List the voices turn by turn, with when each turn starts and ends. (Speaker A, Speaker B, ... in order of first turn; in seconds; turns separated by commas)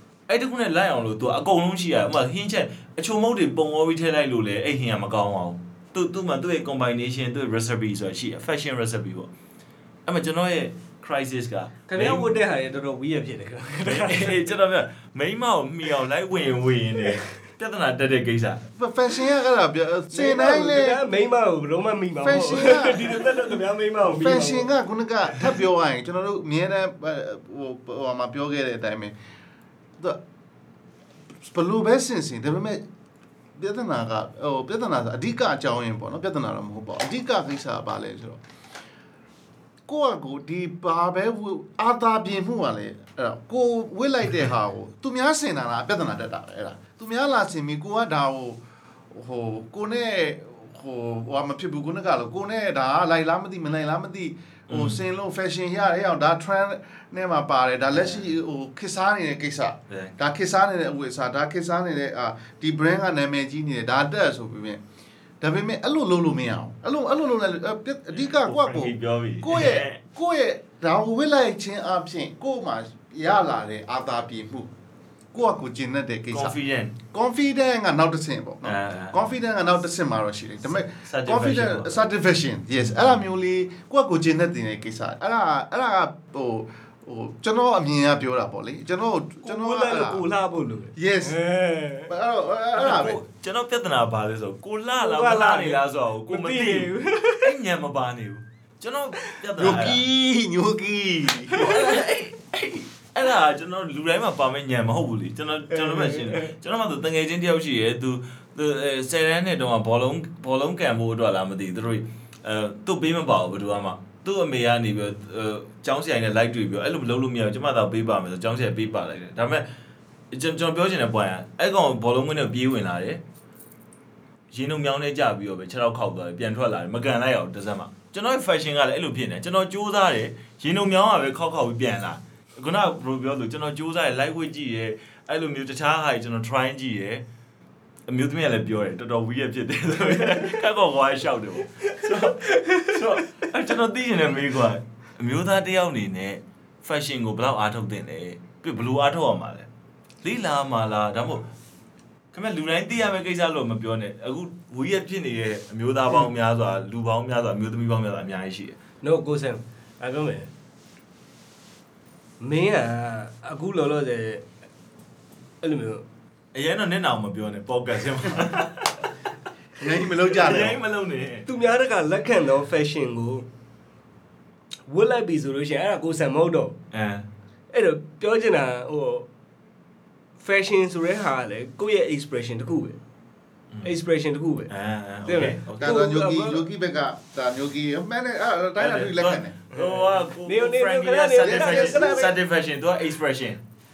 Speaker A: 0.3-9.3, Speaker A: 10.1-12.3, Speaker B: 11.9-14.5, Speaker A: 13.8-18.6, Speaker C: 18.8-21.0, Speaker B: 20.1-24.7, Speaker C: 22.2-23.3, Speaker C: 24.0-29.1, Speaker C: 31.4-32.8, Speaker C: 33.6-38.4, Speaker C: 39.9-64.8, Speaker A: 54.7-55.0, Speaker A: 57.9-58.3, Speaker A: 59.9-60.1, Speaker C: 65.4-74.7, Speaker A: 68.1-70.0, Speaker C: 75.3-90.2, Speaker A: 76.3-77.0, Speaker A: 78.6-79.2, Speaker A: 80.8-82.1, Speaker A: 82.8-83.2, Speaker B: 89.4-92.1, Speaker C: 91.0-91.4, Speaker C: 92.1-93.2, Speaker A: 92.8-100.0, Speaker B: 95.0-97.5, Speaker C: 99.6-101.8, Speaker A: 101.5-119.7, Speaker B: 105.7-106.5, Speaker A: 120.3-123.2, Speaker A: 124.5-137.2, Speaker A: 138.1-149.7, Speaker B: 142.4-143.0, Speaker A: 150.2-151.5, Speaker A: 152.3-158.8, Speaker B: 159.0-160.5, Speaker B: 162.4-164.5, Speaker B: 165.6-166.0, Speaker A: 166.5-169.1, Speaker C: 169.8-170.8, Speaker A: 170.3-171.5, Speaker B: 171.5-173.5, Speaker B: 174.9-176.8, Speaker A: 176.9-177.2, Speaker B: 177.7-179.3, Speaker B: 180.4-183.0, Speaker B: 183.8-184.7, Speaker A: 184.7-185.9, Speaker B: 185.2-186.6, Speaker C: 185.8-189.5, Speaker A: 188.8-193.6, Speaker B: 189.7-192.4